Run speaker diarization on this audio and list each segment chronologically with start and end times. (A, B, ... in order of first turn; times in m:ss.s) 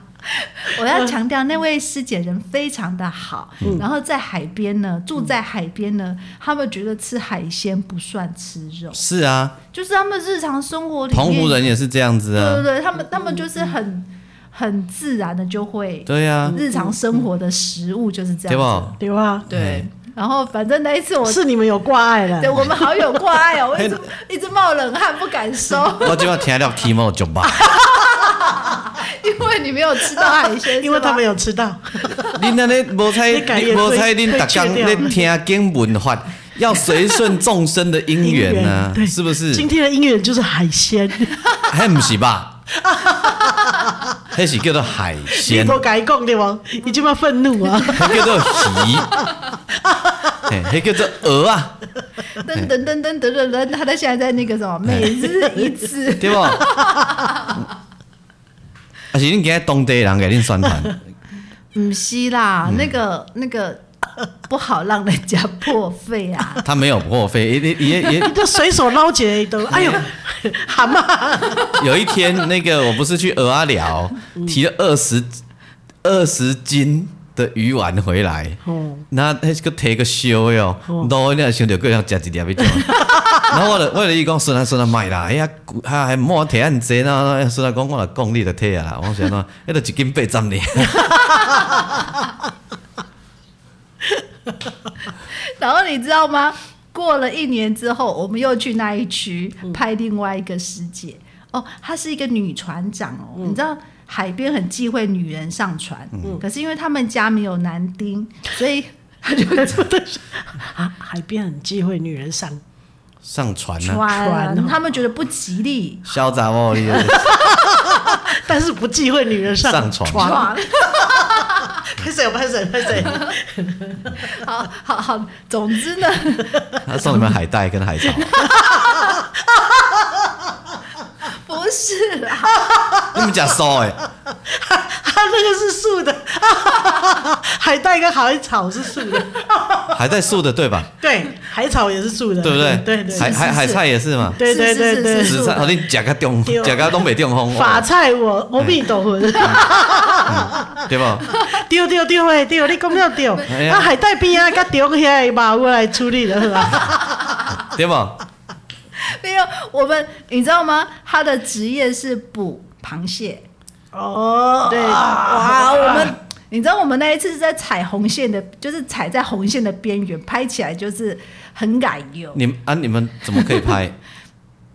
0:00.3-0:09.0 A
0:08.9-0:09.6 B
0:09.7-0:11.6 A
0:11.1-0:12.7 B
0:12.4-0:21.4 A
0:13.3-0:13.6 C
0:16.1-0:16.6 B
0:16.5-0:17.2 C
0:18.5-0:19.0 B
0:19.0-0:19.5 C
0:19.5-0:19.8 B
0:21.2-0:22.7 C
0:22.4-0:26.4 A
0:23.8-0:24.0 B
0:26.0-0:27.8 B
0:27.6-0:31.2 A
0:30.2-0:32.4 C
0:32.3-0:39.7 B
0:33.2-0:35.2 C
0:38.2-0:41.6 C
0:41.6-0:42.6 B
0:42.8-0:44.0 C
0:44.3-0:45.8 B
0:45.3-0:49.0 C
0:47.9-0:49.2 B
0:49.9-0:50.5 C
0:50.5-0:51.8 B
0:52.4-0:57.6 A
0:54.9-0:55.1 B
0:56.2-0:56.7 B
0:59.1-1:01.0 B
1:01.7-1:03.8 A
1:04.5-1:06.6 A
1:06.6-1:08.4 B
1:08.0-1:11.8 C
1:09.7-1:10.1 B
1:11.7-1:15.4 B
1:16.0-1:31.3 B
1:18.6-1:19.1 C
1:22.9-1:23.4 C
1:31.2-1:31.7 A
1:35.3-1:50.0 A
1:49.6-1:52.6 C
1:53.2-1:54.0 B
1:53.8-1:56.1 A
1:54.0-1:54.8 C
1:56.1-1:57.4 B
1:56.9-1:57.5 A
1:56.9-2:04.2 C
1:59.6-2:00.4 B
2:00.1-2:01.8 A
2:03.0-2:03.4 A
2:04.2-2:07.3 A
2:06.8-2:08.5 B
2:08.4-2:09.2 A
2:08.4-2:10.6 C
2:11.3-2:12.7 A
2:12.6-2:13.4 C
2:13.1-2:14.0 B
2:14.4-2:20.0 C
2:19.9-2:20.9 B
2:21.0-2:23.5 C
2:22.4-2:24.4 B
2:23.1-2:25.7 A
2:24.4-2:25.5 C
2:25.2-2:27.9 B
2:26.5-2:37.2 C
2:28.6-2:28.8 B
2:29.6-2:30.2 A
2:30.3-2:31.3 B
2:33.5-2:34.0 B
2:37.1-2:37.6 A
2:37.6-2:38.2 B
2:39.0-2:43.5 A
2:43.9-2:46.1 C
2:44.7-2:52.4 A
2:52.3-2:54.0 B